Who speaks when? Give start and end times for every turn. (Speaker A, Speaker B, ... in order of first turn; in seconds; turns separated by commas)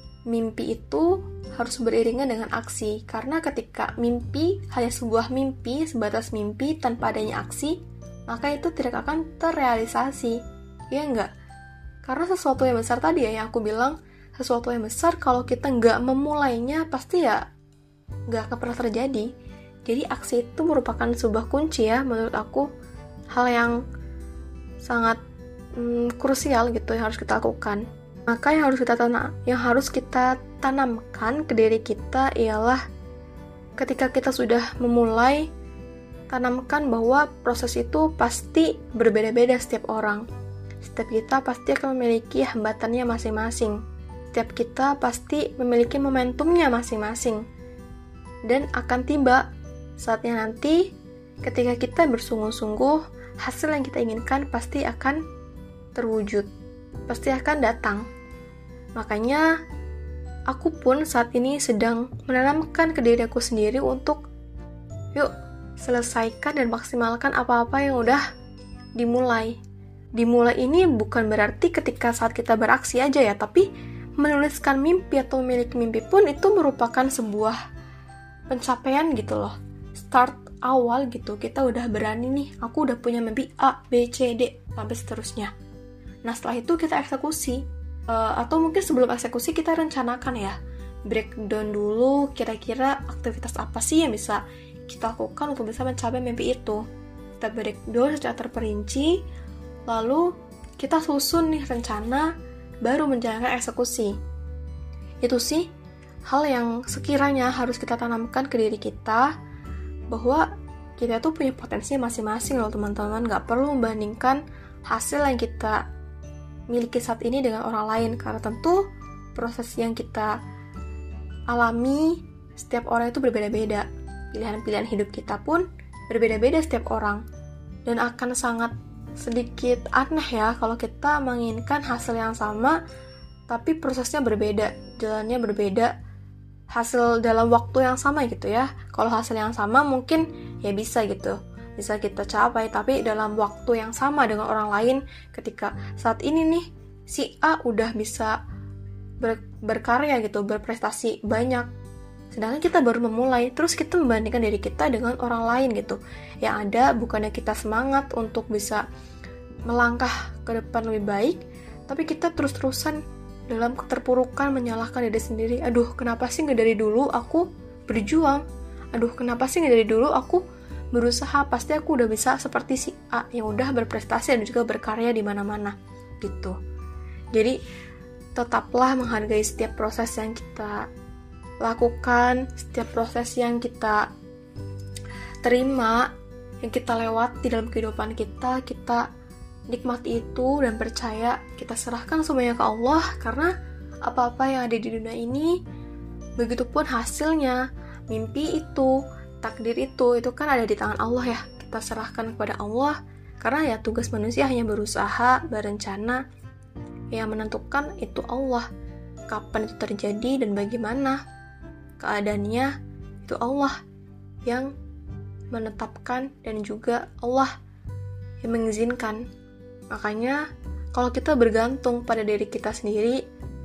Speaker A: 0.3-10.4, Speaker A: 10.9-11.3, Speaker A: 12.0-17.4, Speaker A: 18.3-19.3, Speaker A: 19.9-22.7, Speaker A: 23.3-23.8, Speaker A: 24.8-25.2, Speaker A: 25.7-32.8, Speaker A: 33.8-35.5, Speaker A: 36.3-40.2, Speaker A: 40.8-43.8, Speaker A: 44.3-47.4, Speaker A: 48.5-49.4, Speaker A: 50.0-50.9, Speaker A: 51.4-55.2, Speaker A: 55.9-56.5, Speaker A: 57.1-58.1, Speaker A: 59.0-59.5, Speaker A: 60.5-64.2, Speaker A: 65.1-68.2, Speaker A: 69.0-69.6, Speaker A: 70.2-73.7, Speaker A: 74.2-77.6, Speaker A: 78.5-85.5, Speaker A: 86.2-96.8, Speaker A: 97.4-99.2, Speaker A: 99.9-102.3, Speaker A: 102.8-104.1, Speaker A: 105.2-105.7, Speaker A: 106.3-109.3, Speaker A: 110.1-110.5, Speaker A: 111.0-115.8, Speaker A: 116.7-120.3, Speaker A: 121.5-127.2, Speaker A: 127.8-132.8, Speaker A: 133.5-135.9, Speaker A: 136.7-148.3, Speaker A: 149.2-151.7, Speaker A: 152.3-158.8, Speaker A: 159.7-176.6, Speaker A: 177.3-177.6, Speaker A: 178.3-180.9, Speaker A: 181.6-184.0, Speaker A: 185.4-186.1, Speaker A: 186.6-189.0, Speaker A: 189.7-193.5, Speaker A: 194.0-195.6, Speaker A: 196.4-197.6, Speaker A: 198.1-206.2, Speaker A: 207.1-208.7, Speaker A: 209.3-211.2, Speaker A: 212.0-212.7, Speaker A: 213.2-213.8, Speaker A: 214.4-214.7, Speaker A: 215.5-217.5, Speaker A: 218.4-219.3, Speaker A: 219.9-220.4, Speaker A: 220.9-223.2